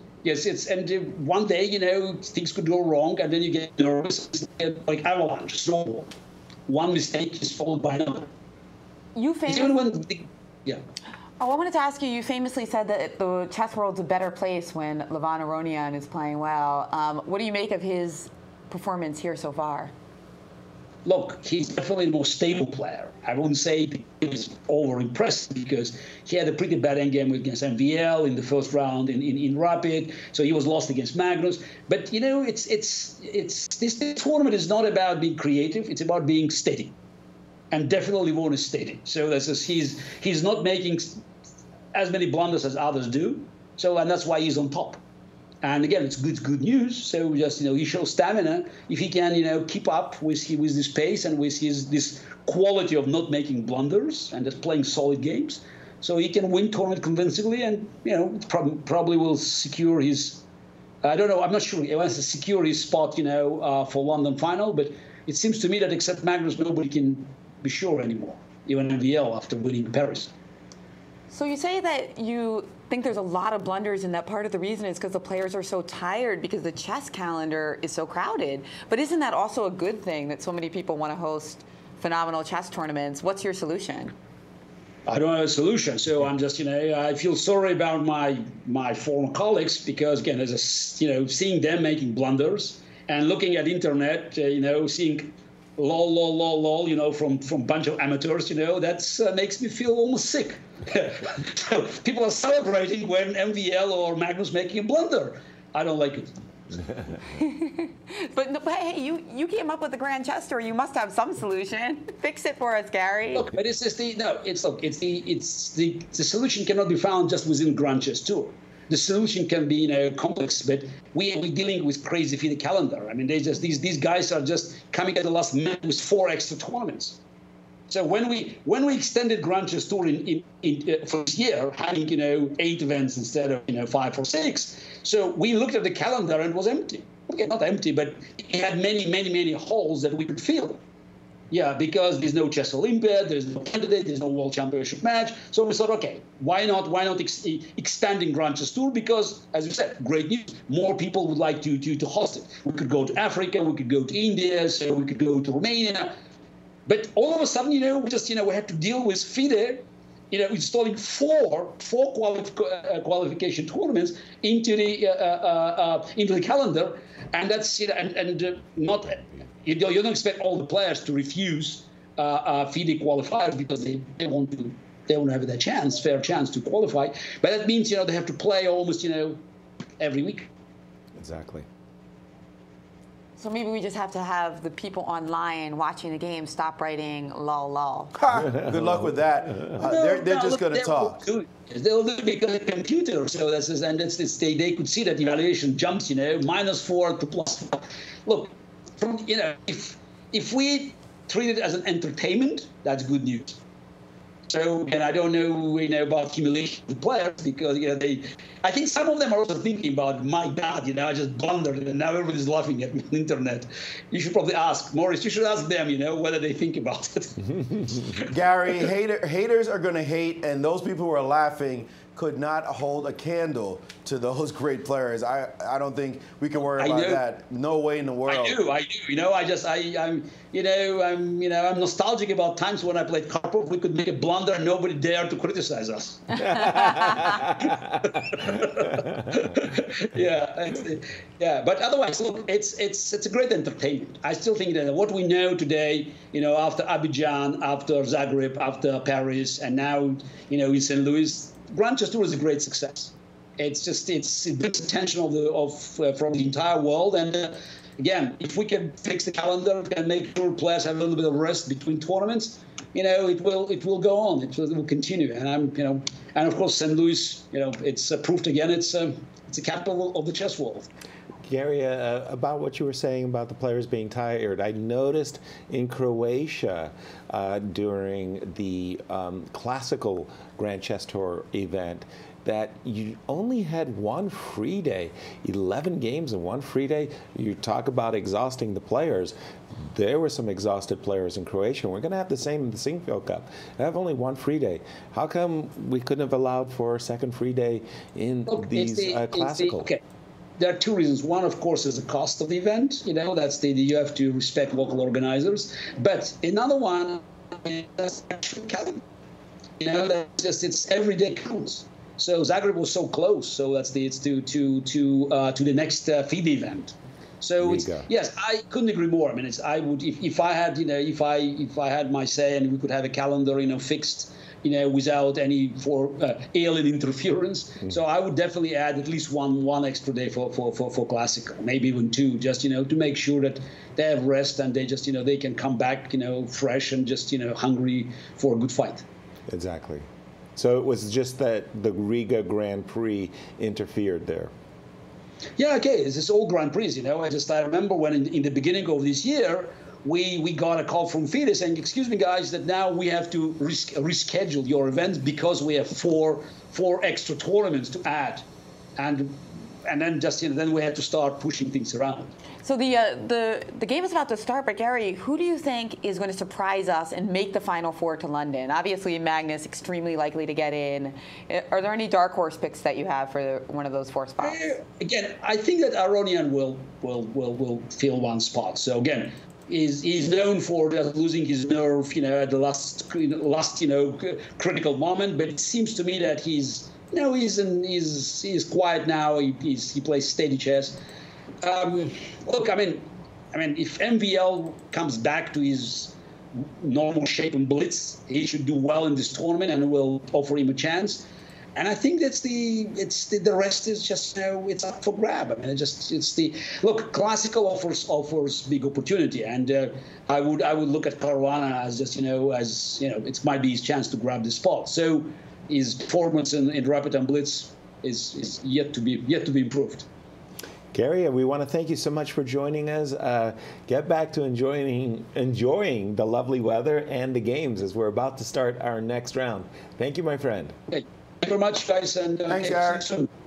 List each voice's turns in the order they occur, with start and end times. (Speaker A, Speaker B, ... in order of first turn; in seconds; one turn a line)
Speaker A: 0.2-6.1
Speaker A: 6.7-8.3
Speaker B: 9.2-9.8
Speaker A: 9.5-10.8
Speaker B: 11.4-19.9
Speaker A: 21.1-37.0
Speaker A: 37.7-41.2
Speaker A: 41.9-45.0
Speaker A: 45.6-60.4
Speaker A: 61.0-70.3
Speaker B: 71.3-84.1
Speaker A: 85.1-106.3
Speaker B: 107.3-113.5
Speaker A: 113.3-127.2
Speaker A: 127.9-140.8
Speaker A: 141.5-156.1
Speaker A: 156.9-179.4
Speaker A: 180.0-180.5
Speaker C: 181.2-181.7
Speaker B: 183.4-188.2
Speaker D: 188.2-191.2
Speaker A: 189.7-203.6
Speaker A: 204.5-218.2
Speaker D: 218.3-228.6
Speaker A: 226.8-227.2
Speaker A: 228.3-270.9
Speaker B: 236.4-237.4
Speaker C: 271.4-289.4
Speaker C: 289.9-299.9
Speaker A: 298.5-300.0
Speaker A: 300.6-309.0
Speaker A: 309.8-339.1
Speaker C: 317.6-318.1
Speaker C: 339.5-344.5
Speaker A: 345.6-358.5
Speaker A: 359.0-362.3
Speaker B: 362.6-374.7
Speaker A: 374.4-391.0
Speaker A: 391.6-420.1
Speaker C: 420.9-430.7
Speaker A: 430.9-433.3
Speaker D: 432.5-433.0